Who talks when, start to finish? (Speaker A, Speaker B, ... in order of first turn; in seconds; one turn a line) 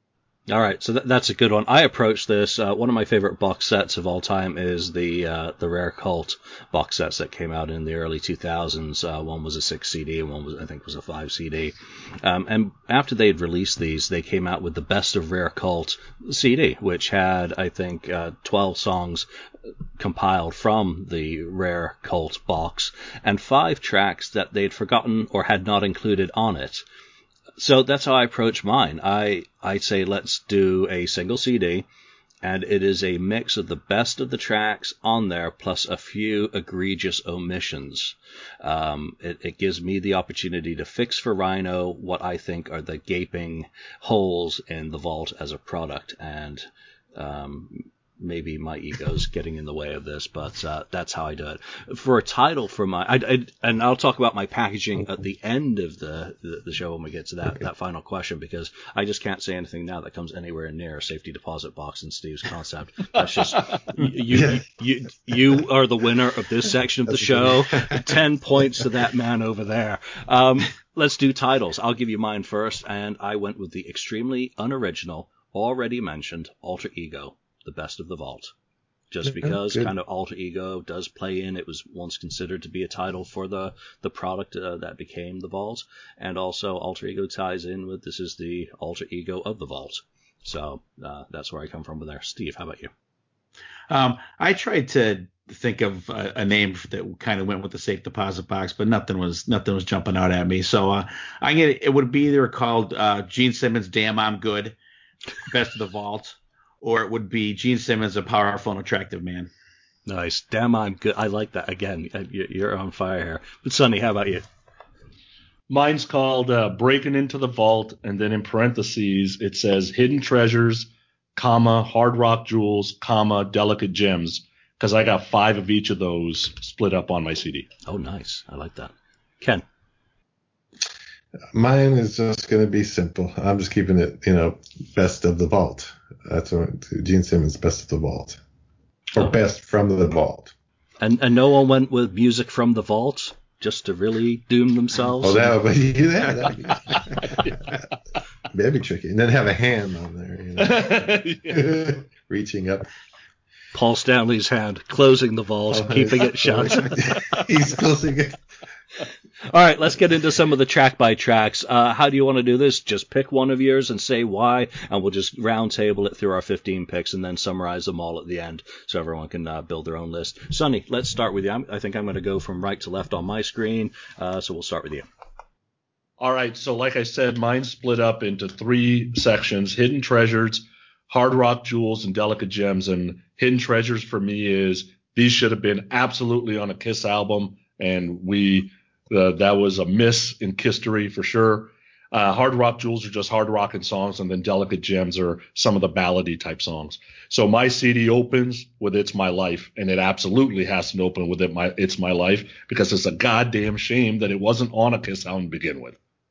Speaker A: 0.5-19.2
Speaker A: 20.0-26.8
Speaker A: 27.6-31.8
Speaker A: 32.4-46.6
Speaker A: 47.1-78.5
Speaker B: 64.3-64.6
Speaker A: 79.1-92.9
Speaker B: 79.3-79.9
Speaker C: 93.9-104.8
Speaker C: 105.5-109.5
Speaker A: 110.1-114.4
Speaker D: 115.7-127.7
Speaker A: 127.8-129.6
Speaker B: 131.5-138.4
Speaker B: 139.1-140.5
Speaker A: 141.0-145.6
Speaker B: 145.2-147.8
Speaker B: 148.5-152.9
Speaker D: 150.6-151.8
Speaker A: 153.7-157.2
Speaker B: 155.7-158.4
Speaker A: 159.5-175.1
Speaker D: 176.2-205.9